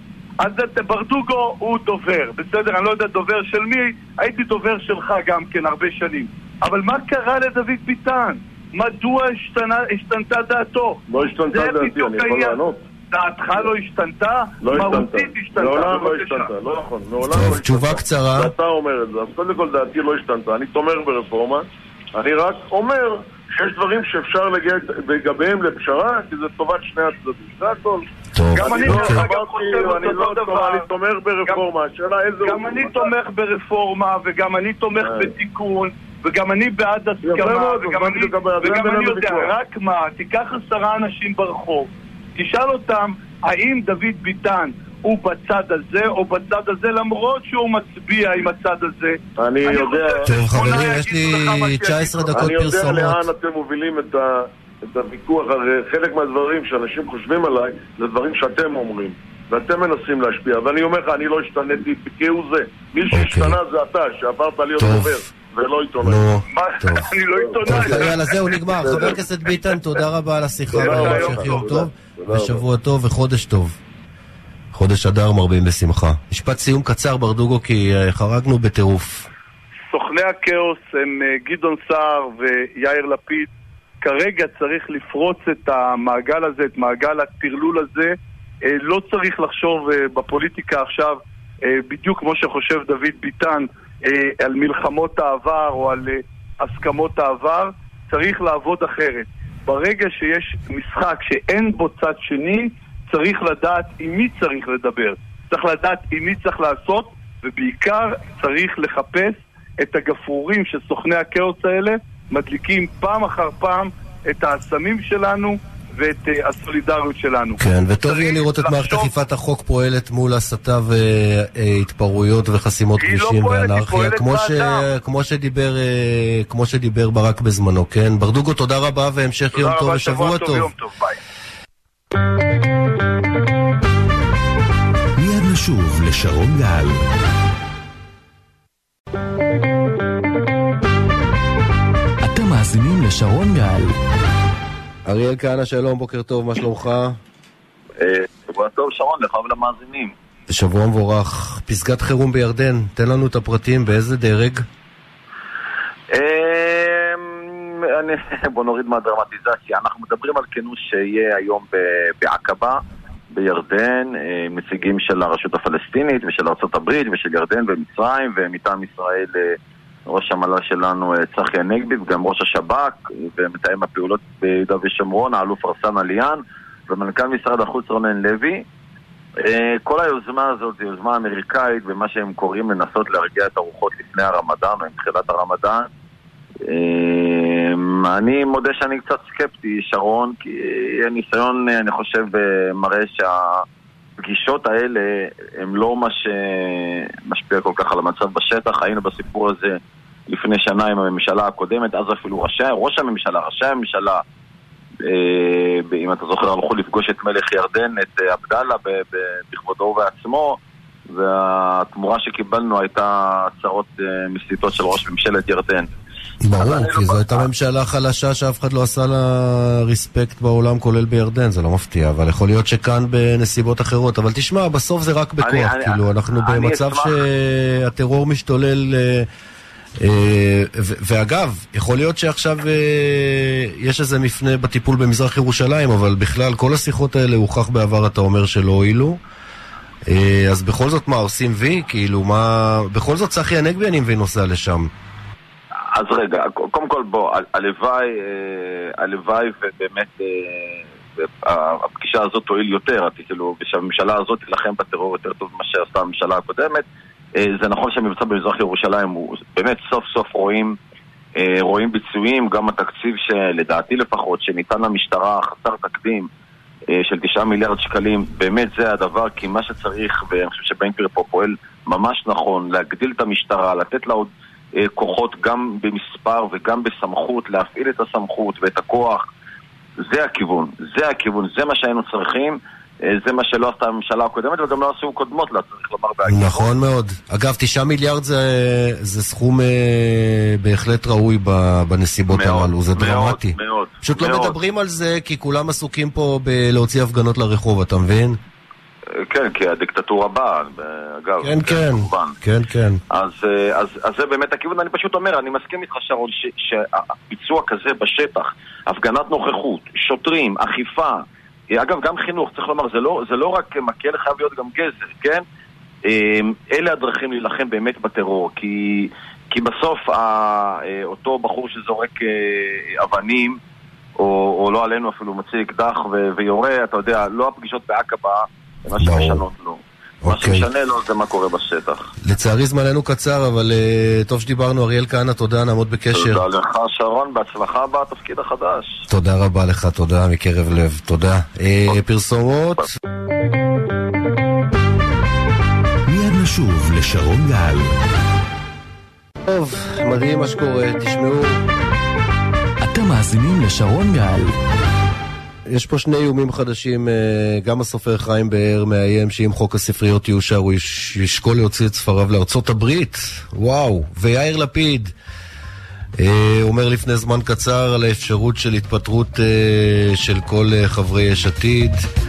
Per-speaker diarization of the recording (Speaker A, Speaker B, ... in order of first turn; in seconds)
Speaker A: 0.4-12.6, 13.1-16.5, 28.6-30.9, 32.4-52.5, 66.5-68.4, 70.8-71.7, 79.9-83.5, 84.0-119.1, 123.0-124.9, 129.5-131.2
Speaker B: 11.1-12.8, 14.6-33.1, 35.0-35.3, 37.2-39.5, 49.4-50.3, 52.3-66.3, 67.3-68.2, 68.7-69.2, 70.7-72.6
Speaker C: 17.3-18.5, 28.4-29.2, 50.3-53.3, 63.1-63.6, 64.8-65.3, 66.0-67.1, 67.7-73.8, 74.7-79.3, 117.6-130.7, 145.1-147.2, 150.5-154.7, 216.4-229.3, 230.0-239.2, 240.1-244.9, 286.3-298.4, 301.4-303.0, 329.0-329.4, 330.2-330.7, 332.2-336.4, 339.1-342.9, 349.4-351.6, 355.7-365.1, 366.2-372.1
Speaker D: 135.2-137.0, 142.2-143.9, 346.1-347.9, 352.8-354.5
Speaker E: 148.0-150.2, 156.1-162.8, 163.3-178.7, 179.4-185.9, 186.7-193.6, 194.2-199.8, 200.3-204.2, 205.1-215.9, 216.6-217.5, 225.4-227.2, 245.9-256.9, 257.4-260.8, 261.4-266.3, 266.9-279.3, 280.1-286.7, 292.3-294.6, 299.2-302.4, 303.1-315.4, 316.1-323.6, 324.2-332.1, 336.1-339.0